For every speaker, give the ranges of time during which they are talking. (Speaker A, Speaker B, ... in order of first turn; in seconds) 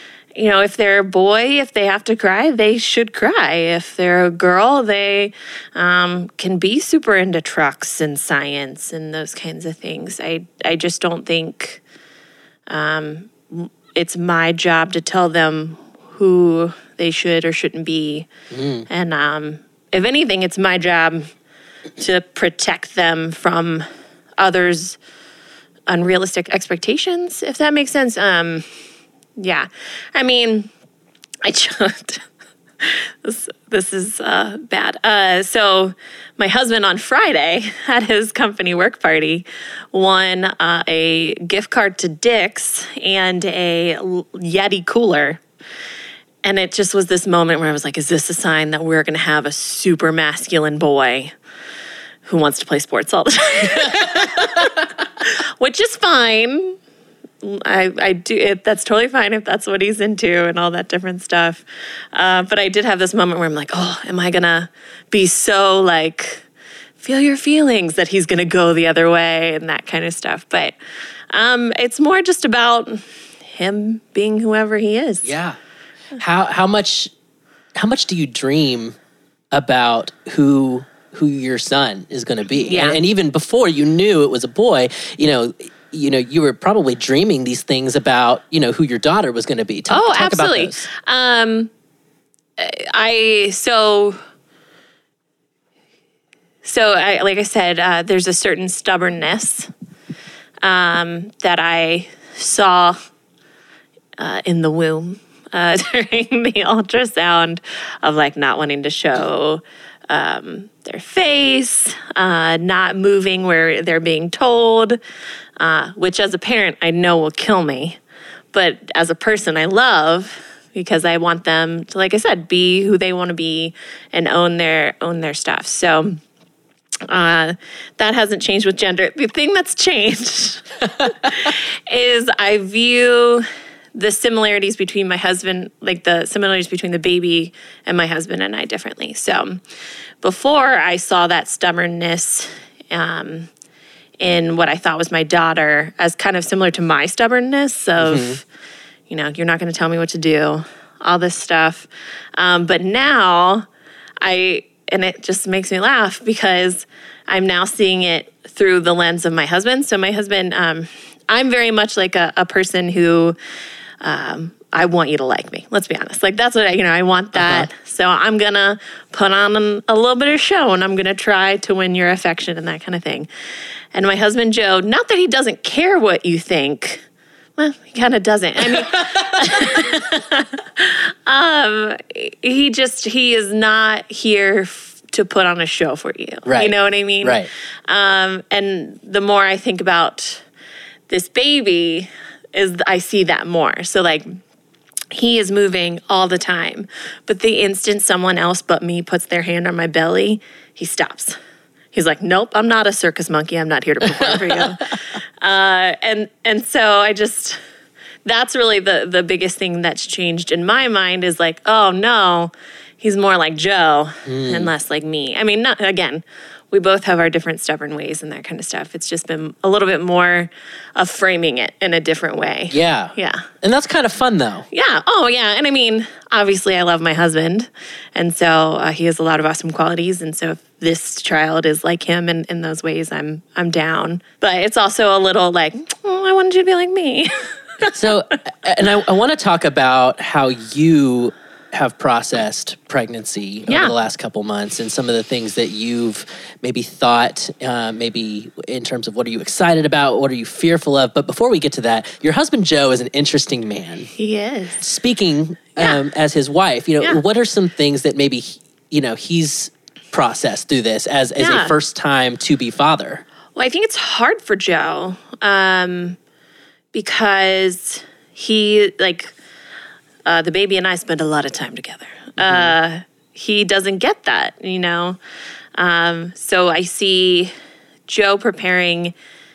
Speaker A: 0.3-11.8, 12.7-18.3, 18.9-21.3, 22.0-23.9, 24.4-25.0, 25.9-28.6, 29.4-30.7, 31.4-32.2, 32.8-45.4, 46.4-51.3, 52.2-56.8, 57.4-66.5, 67.0-70.7, 71.3-75.3, 82.6-83.0, 89.9-91.7, 92.6-94.2, 96.6-99.7, 100.6-103.0, 104.2-115.0, 115.6-118.0, 118.5-126.2, 127.1-139.6, 140.2-143.5, 144.2-148.4, 149.1-153.7, 154.2-163.4, 164.0-173.3, 173.9-177.0, 177.6-190.4, 191.1-194.4, 195.1-201.4, 201.9-207.6, 208.2-223.5, 224.7-237.9, 243.7-243.9, 254.2-254.8, 261.4-261.7, 263.6-266.2, 266.9-269.3, 270.2-275.2, 275.8-277.5, 278.1-279.1
Speaker B: 18.5-18.9, 75.2-75.6, 76.2-77.1, 77.8-79.0, 79.5-90.9, 148.0-148.4, 167.3-167.7, 178.7-179.4, 186.4-187.5, 204.1-204.7, 214.2-214.7, 222.7-224.7, 237.9-254.1, 254.8-263.2, 272.4-272.7